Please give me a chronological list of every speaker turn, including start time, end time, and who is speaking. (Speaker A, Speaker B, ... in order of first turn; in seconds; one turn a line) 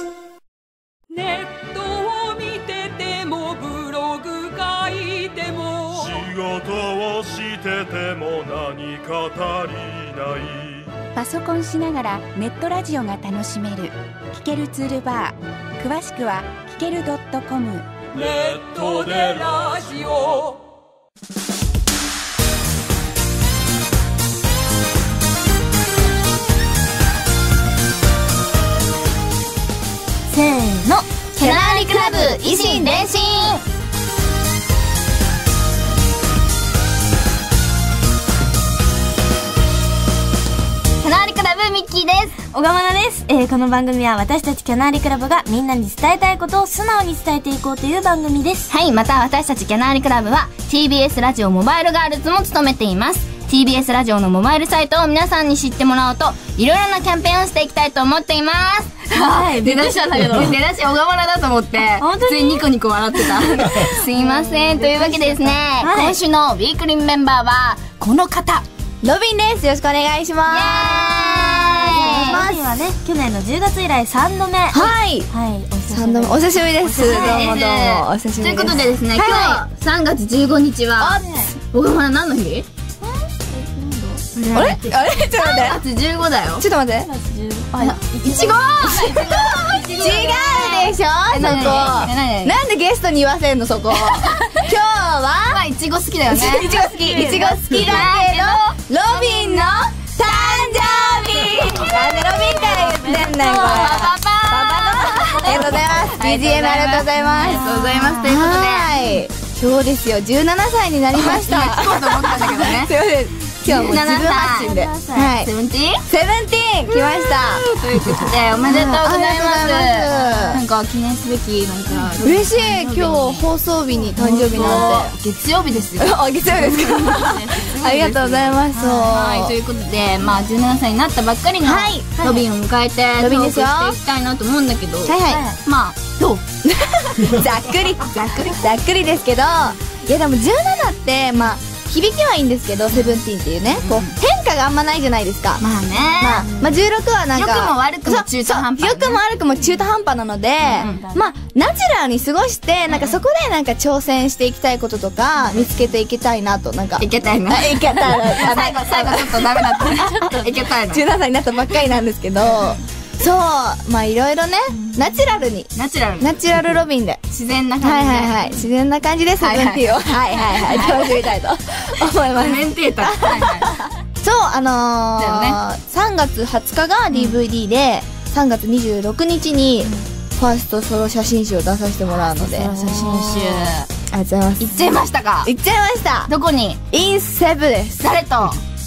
Speaker A: 1.1-6.3
Speaker B: 6.0-10.9
Speaker C: 11.1-17.9
Speaker B: 18.1-19.7
Speaker A: 18.1-20.6
Speaker D: 30.3-31.2
Speaker E: 31.4-33.6
Speaker F: 31.4-33.1
Speaker E: 41.0-42.4
Speaker D: 42.5-48.7
Speaker E: 48.7-68.7
Speaker D: 59.1-60.5
Speaker D: 61.9-62.6
Speaker D: 63.2-66.2
Speaker F: 69.0-72.6
Speaker E: 70.5-72.5
Speaker D: 71.9-77.6
Speaker F: 74.7-75.3
Speaker F: 75.9-79.6
Speaker E: 76.8-81.2
Speaker D: 78.4-78.9
Speaker D: 81.0-81.5
Speaker E: 81.7-82.7
Speaker D: 83.0-84.8
Speaker E: 84.3-86.7
Speaker F: 84.5-85.8
Speaker F: 86.6-87.1
Speaker D: 87.0-90.4
Speaker E: 87.8-92.6
Speaker F: 89.1-95.6
Speaker E: 95.5-101.5
Speaker F: 96.3-115.5
Speaker D: 96.6-97.8
Speaker D: 101.9-104.1
Speaker E: 103.6-109.2
Speaker D: 105.4-105.9
Speaker D: 107.3-108.0
Speaker E: 111.1-112.9
Speaker E: 113.6-114.8
Speaker D: 113.7-115.3
Speaker E: 115.4-116.0
Speaker F: 116.0-117.6
Speaker E: 116.9-123.5
Speaker F: 118.6-120.6
Speaker D: 120.1-120.6
Speaker F: 122.2-125.1
Speaker E: 124.1-136.4
Speaker D: 124.5-125.0
Speaker F: 126.0-129.6
Speaker D: 126.9-128.1
Speaker D: 128.7-129.2
Speaker F: 131.6-132.1
Speaker D: 132.2-132.4
Speaker F: 133.2-134.0
Speaker F: 135.0-135.4
Speaker D: 135.3-135.6
Speaker F: 136.6-145.6
Speaker E: 138.0-138.7
Speaker E: 142.9-144.2
Speaker E: 145.6-146.8
Speaker F: 146.2-159.9
Speaker E: 147.3-149.2
Speaker D: 150.6-151.3
Speaker E: 150.8-151.0
Speaker E: 152.9-153.2
Speaker E: 155.5-155.7
Speaker E: 157.0-161.1
Speaker D: 159.8-160.7
Speaker F: 160.9-167.2
Speaker E: 162.4-162.8
Speaker E: 164.9-166.8
Speaker E: 167.3-168.7
Speaker F: 167.8-182.7
Speaker E: 169.4-171.2
Speaker E: 172.3-173.7
Speaker E: 175.2-175.6
Speaker E: 182.3-183.9
Speaker D: 182.5-183.7
Speaker F: 184.1-184.9
Speaker E: 184.6-185.5
Speaker F: 185.4-186.3
Speaker E: 186.3-186.8
Speaker F: 186.9-188.0
Speaker E: 188.0-188.6